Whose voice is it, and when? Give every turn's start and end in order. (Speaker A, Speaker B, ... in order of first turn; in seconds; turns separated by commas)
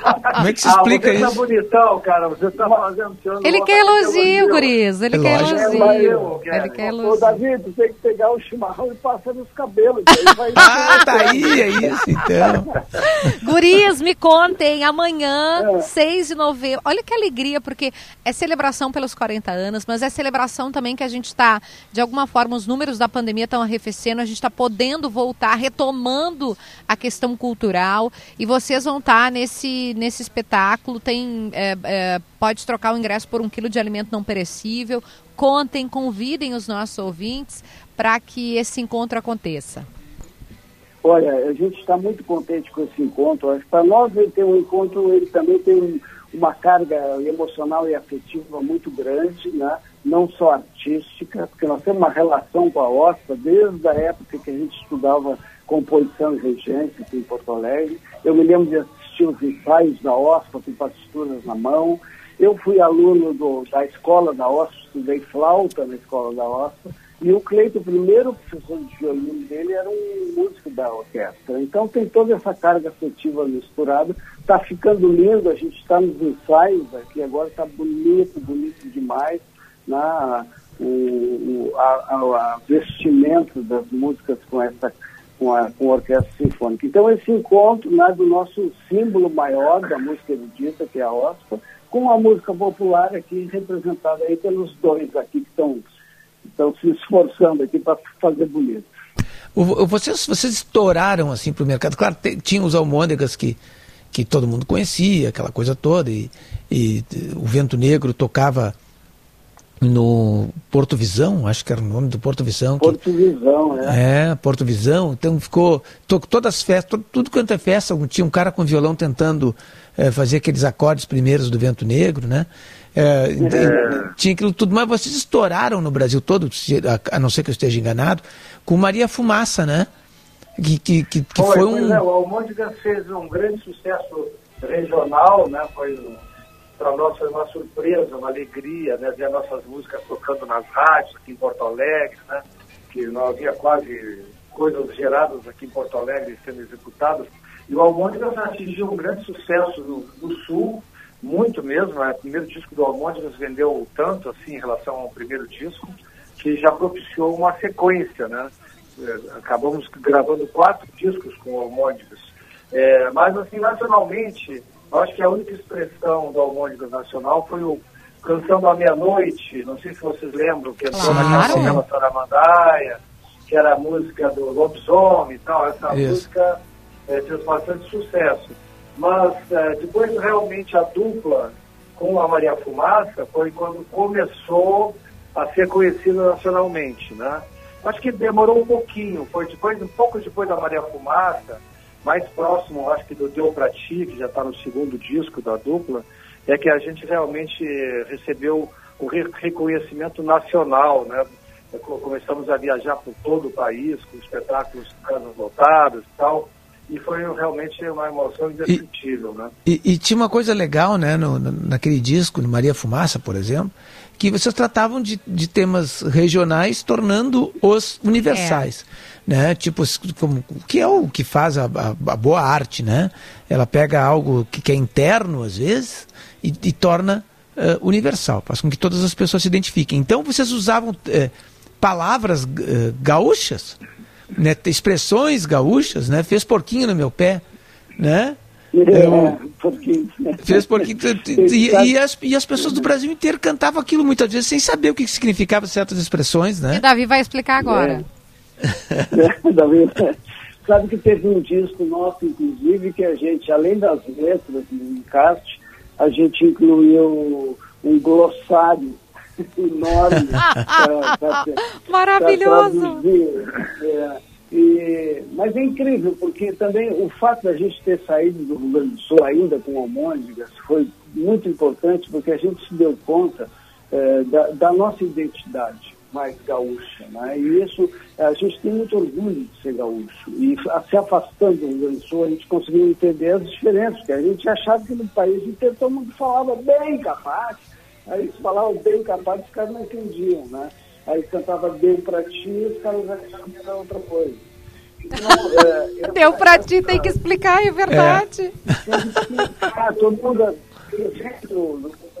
Speaker A: 0.2-4.7, Speaker B: 0.3-1.4, Speaker C: 3.4-7.4, Speaker B: 5.1-5.6, Speaker D: 5.3-6.3, Speaker A: 5.5-7.0, Speaker D: 7.0-11.9, Speaker B: 10.6-12.7, Speaker C: 10.7-11.3, Speaker C: 13.0-39.9, Speaker D: 15.6-15.9, Speaker D: 41.0-95.8, Speaker D: 96.5-98.9, Speaker B: 99.5-103.6, Speaker B: 104.1-108.7, Speaker B: 109.8-113.0, Speaker D: 112.8-114.0, Speaker B: 113.8-129.9, Speaker D: 123.4-123.8, Speaker A: 123.5-124.1, Speaker B: 130.6-132.0, Speaker A: 131.3-136.2, Speaker A: 136.8-209.5, Speaker C: 170.9-171.8, Speaker B: 171.0-171.8, Speaker B: 175.9-176.2, Speaker B: 209.7-233.8, Speaker C: 218.3-218.7, Speaker B: 234.3-237.4, Speaker B: 238.0-238.4, Speaker D: 238.7-240.8, Speaker B: 238.9-239.4, Speaker B: 240.4-246.8, Speaker D: 241.3-241.9, Speaker C: 246.7-248.0, Speaker D: 247.6-248.0, Speaker B: 248.7-249.1, Speaker D: 249.1-259.0, Speaker D: 259.6-261.6, Speaker C: 260.4-260.9, Speaker C: 261.7-263.0, Speaker D: 262.2-294.4, Speaker D: 295.0-297.1, Speaker C: 296.1-298.5, Speaker B: 297.9-298.8, Speaker D: 298.9-302.0